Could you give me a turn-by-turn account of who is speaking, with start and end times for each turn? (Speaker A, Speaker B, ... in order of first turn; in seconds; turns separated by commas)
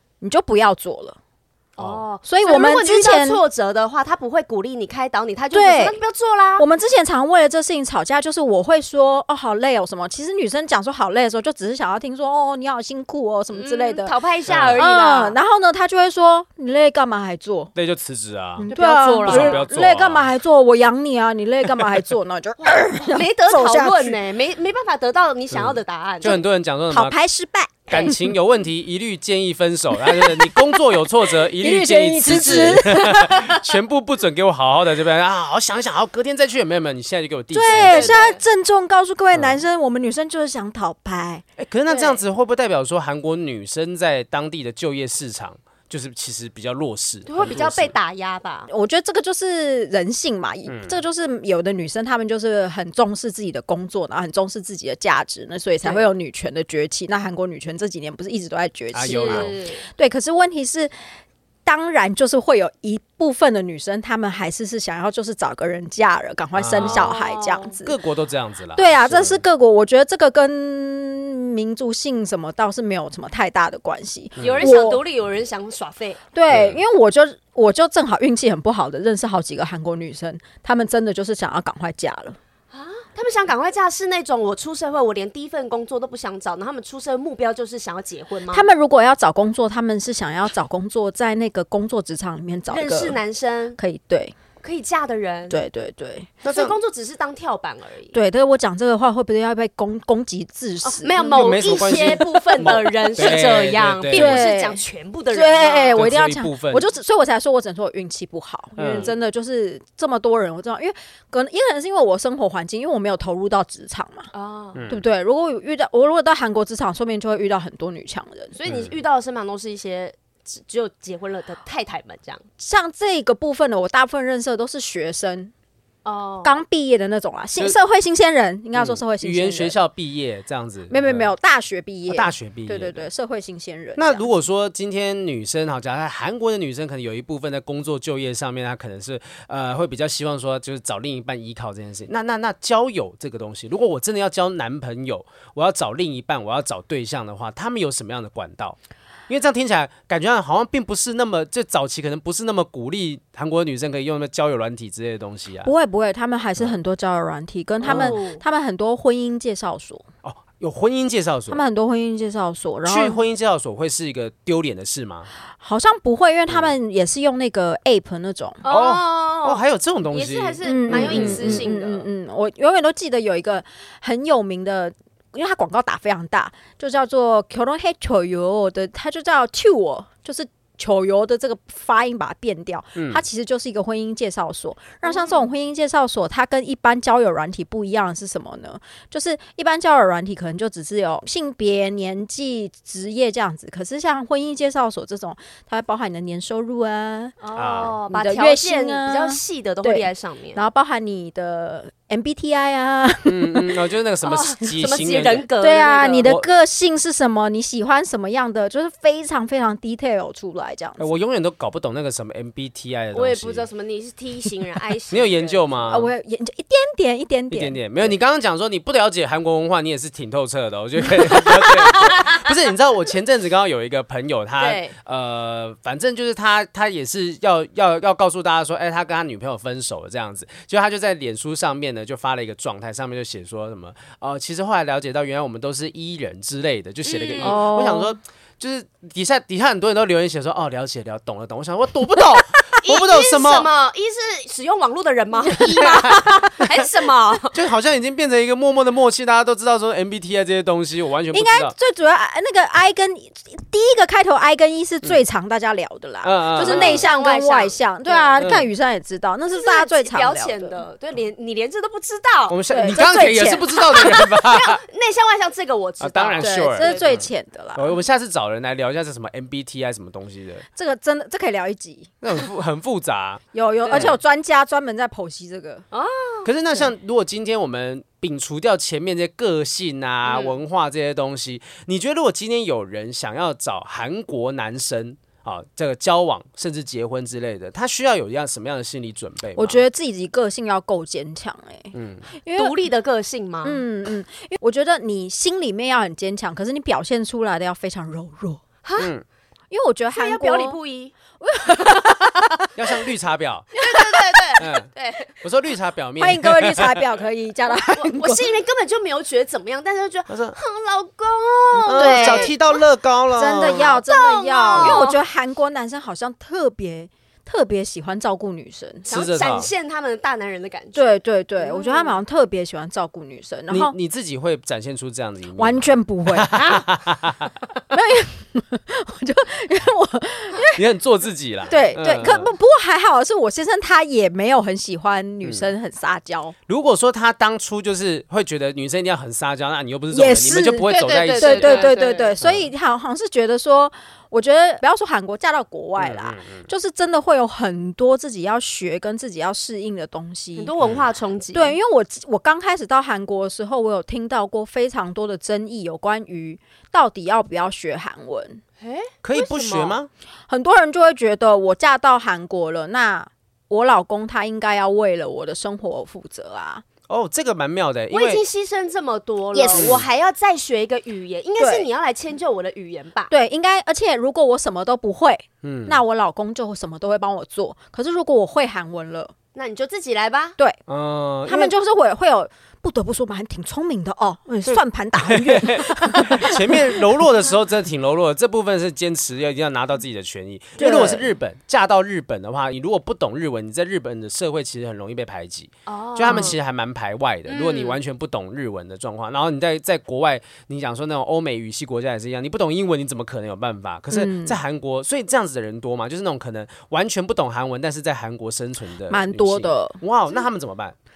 Speaker A: 0.2-1.2, Speaker B: 1.8-6.7, Speaker C: 1.8-2.0, Speaker A: 2.2-3.4, Speaker A: 5.5-6.0, Speaker A: 6.6-14.2, Speaker B: 13.5-15.4, Speaker C: 14.5-14.8, Speaker A: 14.8-17.7, Speaker C: 17.8-18.7, Speaker A: 18.6-24.2, Speaker B: 18.7-19.6, Speaker C: 19.2-20.3, Speaker B: 22.6-26.4, Speaker C: 25.5-27.1, Speaker A: 26.2-28.3, Speaker C: 27.9-38.2, Speaker A: 30.0-30.8, Speaker A: 31.6-33.5, Speaker A: 37.5-41.4, Speaker B: 37.7-38.4, Speaker C: 39.3-39.6, Speaker C: 41.6-47.9, Speaker B: 41.9-42.2, Speaker B: 47.3-48.7, Speaker A: 48.7-60.9, Speaker C: 50.7-51.0, Speaker C: 58.9-59.5, Speaker B: 59.0-59.9, Speaker A: 61.7-68.0, Speaker C: 66.5-67.1, Speaker B: 66.8-67.7, Speaker C: 67.8-69.4, Speaker A: 68.8-75.0, Speaker C: 74.4-74.7, Speaker B: 74.4-76.2, Speaker A: 76.3-82.4, Speaker C: 76.5-76.8, Speaker B: 82.7-88.7, Speaker A: 88.5-93.2, Speaker B: 92.7-93.8, Speaker A: 93.8-94.3, Speaker B: 94.6-95.6, Speaker A: 95.5-96.3, Speaker B: 96.4-98.2, Speaker C: 96.5-96.8, Speaker A: 98.1-103.4, Speaker B: 100.8-106.1, Speaker C: 101.2-104.5, Speaker A: 104.1-114.3, Speaker C: 106.0-106.9, Speaker C: 108.8-109.1, Speaker B: 108.8-109.1, Speaker B: 114.3-114.8, Speaker C: 114.8-115.0, Speaker A: 114.9-118.5, Speaker B: 118.5-122.4, Speaker C: 118.7-118.9, Speaker A: 122.6-125.5, Speaker B: 126.0-126.6, Speaker A: 126.4-129.8, Speaker C: 128.8-131.3, Speaker A: 130.9-134.3, Speaker C: 132.1-133.1, Speaker C: 134.0-148.8, Speaker C: 149.3-155.7, Speaker A: 155.6-160.1, Speaker C: 157.8-158.2, Speaker B: 157.8-158.4, Speaker C: 160.2-161.6, Speaker A: 161.5-163.2, Speaker C: 162.8-165.3, Speaker A: 165.6-168.6, Speaker C: 166.5-166.8, Speaker B: 168.6-172.1, Speaker C: 168.7-171.7, Speaker A: 170.6-197.4, Speaker C: 183.0-183.2, Speaker B: 185.0-185.5, Speaker B: 197.4-200.6, Speaker C: 197.6-198.0, Speaker A: 198.1-203.8, Speaker C: 203.2-205.5, Speaker B: 204.2-206.3, Speaker A: 205.6-211.1, Speaker C: 211.0-213.7, Speaker B: 213.1-215.7, Speaker C: 215.1-216.1, Speaker A: 215.9-218.2, Speaker C: 217.5-243.7, Speaker B: 221.7-222.4, Speaker B: 224.6-224.9, Speaker B: 237.1-237.6, Speaker A: 237.4-238.1, Speaker B: 242.8-247.6, Speaker C: 245.8-246.1, Speaker C: 247.5-251.7, Speaker A: 251.3-260.8, Speaker C: 256.2-257.1, Speaker B: 256.6-258.5, Speaker C: 258.4-258.7, Speaker B: 259.5-262.6, Speaker C: 262.5-264.8, Speaker A: 262.7-263.9, Speaker B: 263.8-267.1, Speaker C: 266.0-270.6, Speaker A: 266.4-267.9, Speaker A: 270.8-272.1, Speaker C: 272.2-274.2, Speaker A: 273.5-275.9, Speaker B: 273.8-274.1, Speaker B: 275.9-276.5, Speaker C: 276.4-289.8, Speaker B: 280.2-280.6, Speaker A: 289.6-292.8, Speaker C: 291.9-292.2, Speaker B: 292.5-293.8, Speaker A: 293.6-298.6, Speaker B: 298.8-299.1, Speaker C: 299.0-299.2, Speaker A: 299.7-300.8, Speaker B: 300.1-301.1, Speaker A: 301.4-302.5, Speaker B: 301.7-302.4, Speaker C: 302.8-303.7, Speaker B: 303.7-305.3, Speaker A: 304.0-304.5, Speaker C: 304.6-304.9, Speaker C: 305.4-307.1, Speaker A: 306.2-308.6, Speaker B: 307.7-312.6, Speaker C: 310.3-310.6, Speaker C: 311.9-314.0, Speaker A: 311.9-312.6, Speaker A: 313.3-319.1, Speaker B: 313.8-315.2, Speaker C: 314.7-315.1, Speaker B: 319.1-321.0, Speaker C: 319.1-319.7, Speaker A: 320.9-323.9, Speaker B: 321.6-322.2, Speaker C: 323.7-327.5, Speaker A: 325.6-326.8, Speaker A: 327.9-330.8, Speaker C: 330.7-332.5, Speaker A: 331.7-336.6, Speaker C: 335.4-335.7, Speaker C: 336.7-342.7, Speaker A: 340.1-350.7, Speaker B: 340.9-342.3, Speaker C: 346.0-346.7, Speaker B: 350.6-351.8, Speaker A: 351.5-358.6, Speaker B: 358.8-360.0, Speaker C: 359.2-360.1, Speaker A: 360.5-366.8, Speaker C: 367.1-368.4, Speaker B: 368.1-373.3, Speaker A: 369.5-370.0, Speaker C: 369.8-370.0, Speaker A: 371.6-371.9, Speaker A: 373.3-379.3, Speaker C: 375.6-376.0, Speaker B: 379.6-380.6, Speaker C: 380.9-381.7, Speaker A: 381.5-387.2, Speaker C: 384.7-410.9, Speaker A: 390.8-391.3, Speaker B: 395.9-396.6, Speaker B: 397.5-398.0, Speaker A: 404.1-404.6, Speaker A: 409.1-410.0